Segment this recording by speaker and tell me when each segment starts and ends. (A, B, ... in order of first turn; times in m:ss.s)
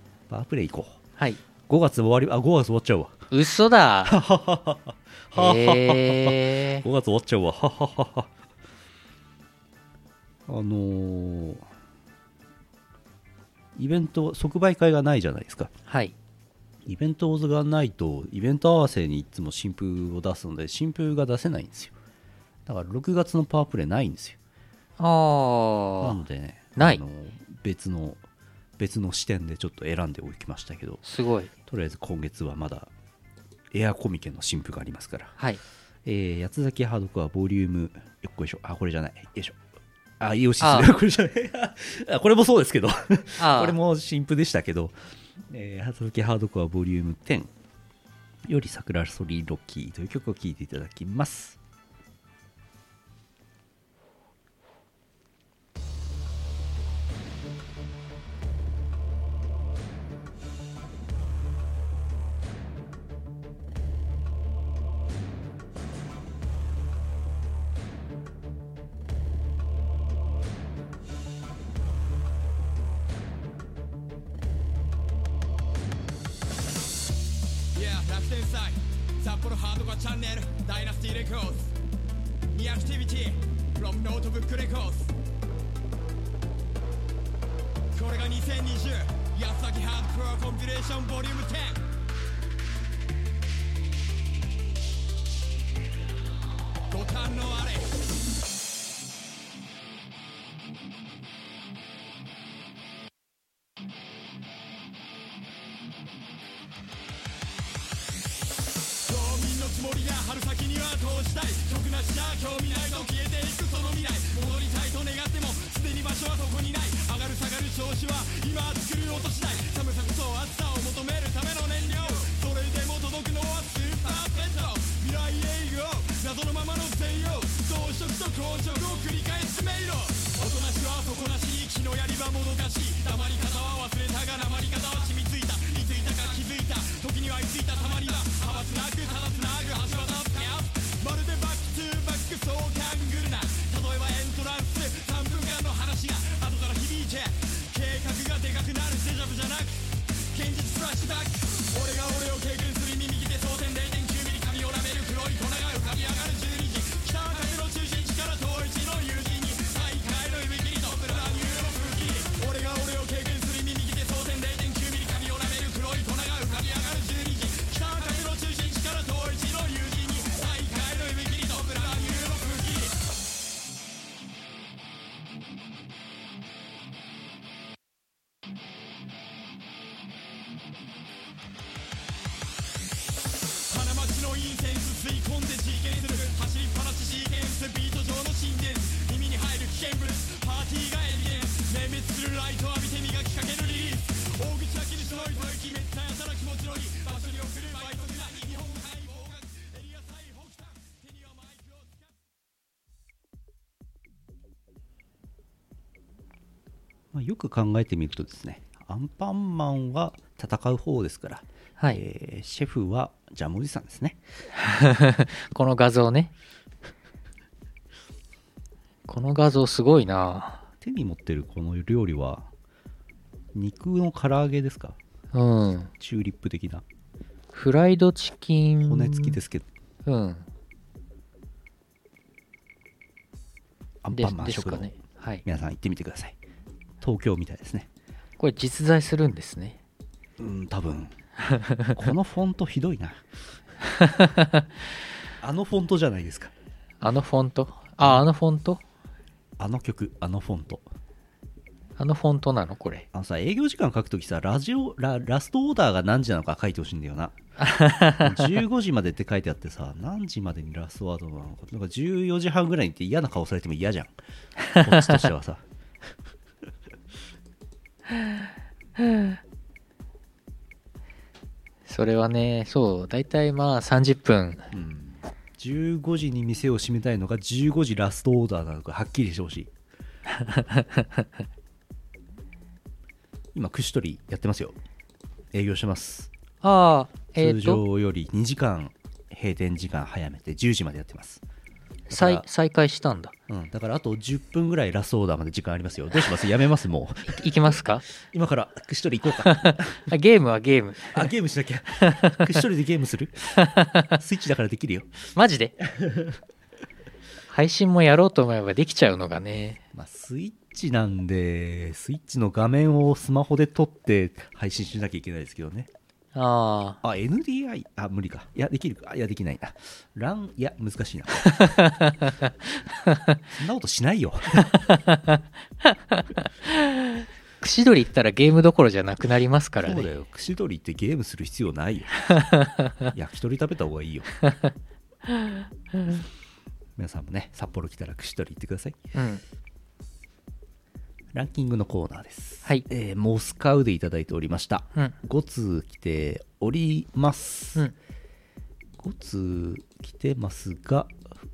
0:00.3-0:01.0 A
0:01.7-0:03.2 A
0:03.3-0:04.2 B
0:04.0-0:08.3 A
0:05.3-0:06.8 B
0:10.5-0:11.6 A
0:13.7-0:15.7 A
0:15.9-0:16.1 B
0:16.8-0:21.9 A
0:22.6-0:24.4 A
0:25.0-0:26.2 B
0:26.0-0:28.2 A
0:28.8-0:31.0 A
0:31.0-0:31.5 B
0:31.7-0:32.9 A
0:33.7-0:35.4 A
0:36.0-0:39.6 A
0:40.2-0:47.5 A
0:40.6-0:40.9 B
0:43.4-0:43.8 B
0:48.4-0:51.6 A
1:17.7-1:21.7 C
1:22.5-1:25.1 C
1:27.9-1:31.9 C
1:36.9-1:37.9 C
1:49.0-2:53.0 C
3:03.5-3:22.1 C
3:27.1-3:34.2 A
3:34.6-3:36.3 B
3:39.1-3:40.6 B
3:40.8-3:42.5 A
3:43.5-3:45.0 A
3:45.3-3:45.9 B
3:45.9-3:46.8 A
3:47.5-3:49.4 B
3:48.8-3:49.7 A
3:50.0-3:50.4 B
3:54.0-3:54.9 A
3:54.1-3:55.4 B
3:55.4-3:56.4 A
3:57.0-3:57.9 A
3:58.4-3:59.8 B
4:00.4-4:01.2 A
4:01.4-4:02.0 B
4:01.9-4:03.2 A
4:03.9-4:04.7 B
4:05.4-4:06.5 A
4:07.0-4:08.8 B
4:09.6-4:10.8 A
4:12.0-4:13.0 B
4:13.1-4:17.4 A
4:17.6-4:18.5 B
4:18.1-4:24.1 A
4:24.7-4:25.6 A
4:29.0-4:29.3 B
4:31.9-4:34.7 B
4:34.7-4:39.7 A
4:40.4-4:41.2 B
4:43.5-4:44.8 A
4:45.5-4:46.3 A
4:46.6-4:47.8 B
4:47.4-4:51.4 A
4:52.1-4:52.4 A
4:52.1-4:53.3 B
4:53.5-5:00.1 A
4:57.3-4:58.0 B
4:59.4-5:01.3 B
5:01.1-5:03.6 A
5:02.1-5:02.5 B
5:03.6-5:04.2 B
5:04.1-5:05.1 A
5:05.3-5:05.8 B
5:05.8-5:06.4 A
5:07.5-5:09.8 B
5:09.9-5:15.9 A
5:16.3-5:17.0 B
5:17.0-5:21.7 A
5:21.4-5:22.5 B
5:23.0-5:23.4 B
5:23.5-5:24.8 A
5:24.6-5:30.1 B
5:29.8-5:32.3 A
5:32.3-5:33.0 B
5:33.1-5:34.3 A
5:35.3-5:36.2 B
5:37.0-5:39.0 A
5:39.1-5:39.4 B
5:41.3-5:47.8 A
5:49.0-5:51.2 A